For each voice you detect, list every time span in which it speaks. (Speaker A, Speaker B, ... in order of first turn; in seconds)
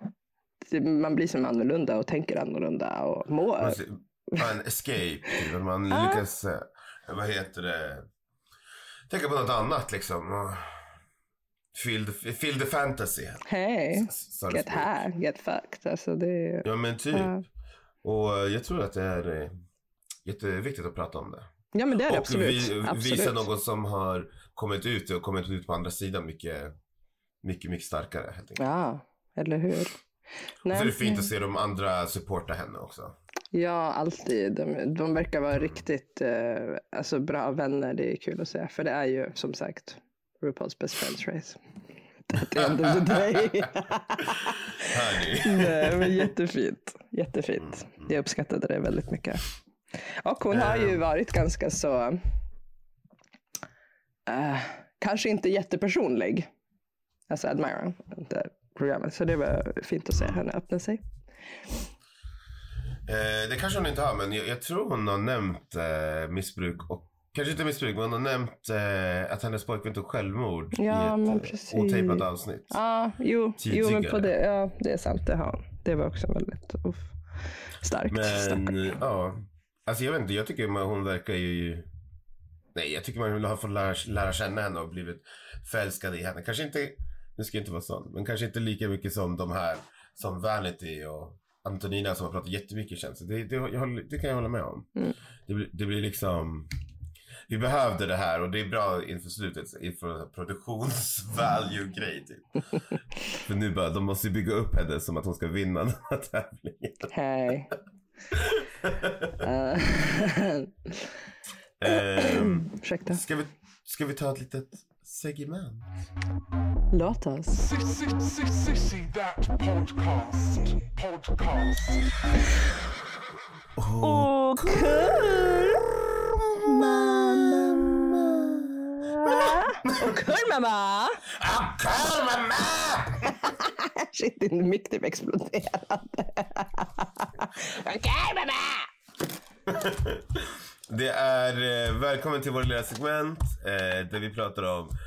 Speaker A: 0.7-3.8, 5.9-6.2, 13.4-17.4, 21.7-23.4, 28.6-29.9, 30.6-31.3, 33.5-41.6, 42.3-49.5, 50.2-52.2, 54.3-56.5, 57.3-61.0, 70.7-77.2, 77.8-78.8, 107.1-107.7, 109.4-110.7, 112.1-113.2, 116.9-117.6, 124.0-125.8, 126.5-128.2, 129.0-131.2, 133.5-138.9
Speaker B: 3.6-8.1, 9.1-10.8, 11.7-15.0, 16.6-17.4, 18.0-19.5, 20.2-21.5, 22.1-26.7, 27.4-28.6, 30.7-33.1, 44.8-46.3, 50.5-51.0, 63.0-72.8, 73.6-74.3, 78.1-81.9, 82.7-94.9, 95.5-96.7, 97.5-102.5, 103.4-107.1, 108.3-109.4, 111.8-116.0, 123.8-130.1, 131.4-133.4, 139.7-144.9
Speaker C: 117.5-122.2